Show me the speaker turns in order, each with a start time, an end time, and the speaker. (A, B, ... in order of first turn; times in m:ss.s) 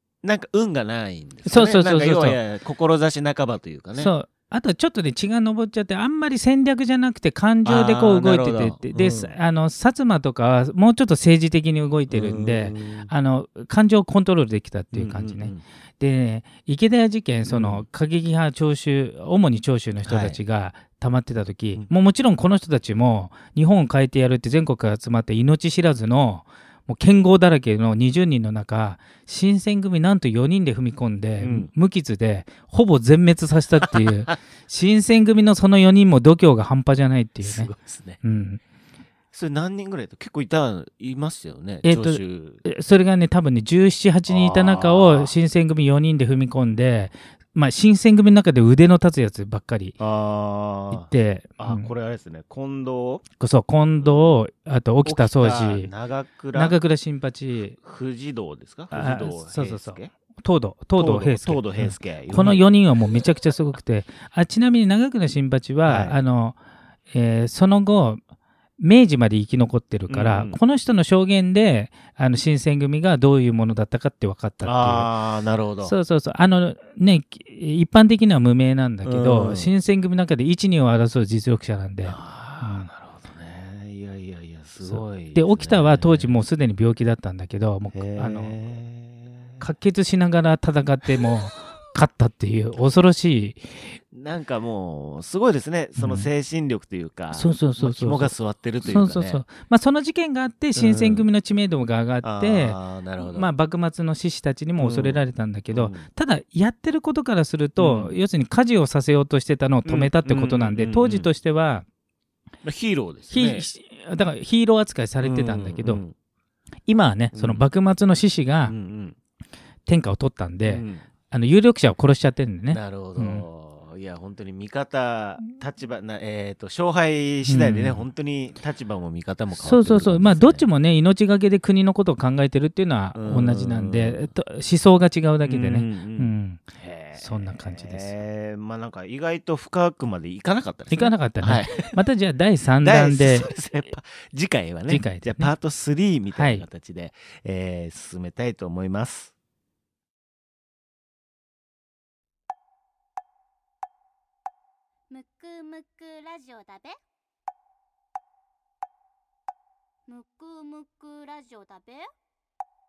0:00.2-0:04.1 A
0:01.4-0:02.4 B
0:04.0-0:37.7 B
0:07.6-0:09.3 A
0:12.1-0:13.1 A
0:14.9-0:15.6 A
0:17.5-0:17.8 A
0:20.0-0:20.4 A
0:31.4-0:31.7 A
0:37.4-0:38.2 A
0:38.2-0:38.6 B
0:39.3-0:42.6 A
0:41.8-0:50.0 B
0:44.3-0:45.3 A
0:50.0-0:53.2 A
0:50.9-0:51.9 B
0:53.4-0:55.9 B
0:55.0-0:56.8 A
0:56.5-0:57.8 B
0:57.8-1:00.1 A
0:58.9-1:06.6 B
1:01.0-1:02.6 A
1:05.8-1:06.2 A
1:07.1-1:08.2 B
1:08.8-1:15.1 B
1:10.1-1:10.6 A
1:14.6-1:15.9 A
1:15.8-1:22.9 B
1:19.0-1:19.7 A
1:22.0-1:26.3 A
1:24.8-1:28.6 B
1:27.9-1:29.6 A
1:29.6-1:33.7 B
1:34.1-1:39.4 A
1:36.0-1:36.3 B
1:37.3-1:51.9 B
1:40.8-1:41.3 A
1:42.2-1:43.5 A
1:44.8-1:45.2 A
1:45.7-1:46.1 A
1:47.8-1:48.2 A
1:49.9-1:51.3 A
1:52.6-1:53.7 A
1:53.3-1:56.0 B
1:55.2-1:56.1 A
1:56.9-1:58.7 B
1:57.3-1:57.6 A
1:58.6-1:59.2 A
1:59.9-2:03.4 B
2:00.6-2:01.1 A
2:02.7-2:10.7 A
2:07.5-2:08.0 B
2:09.6-2:16.6 B
2:13.2-2:14.3 A
2:15.4-2:22.0 A
2:17.2-2:18.2 B
2:20.9-2:23.5 B
2:22.8-2:29.3 A
2:24.9-2:25.5 B
2:26.4-2:26.7 B
2:35.1-2:37.0 C
2:40.1-2:42.1 C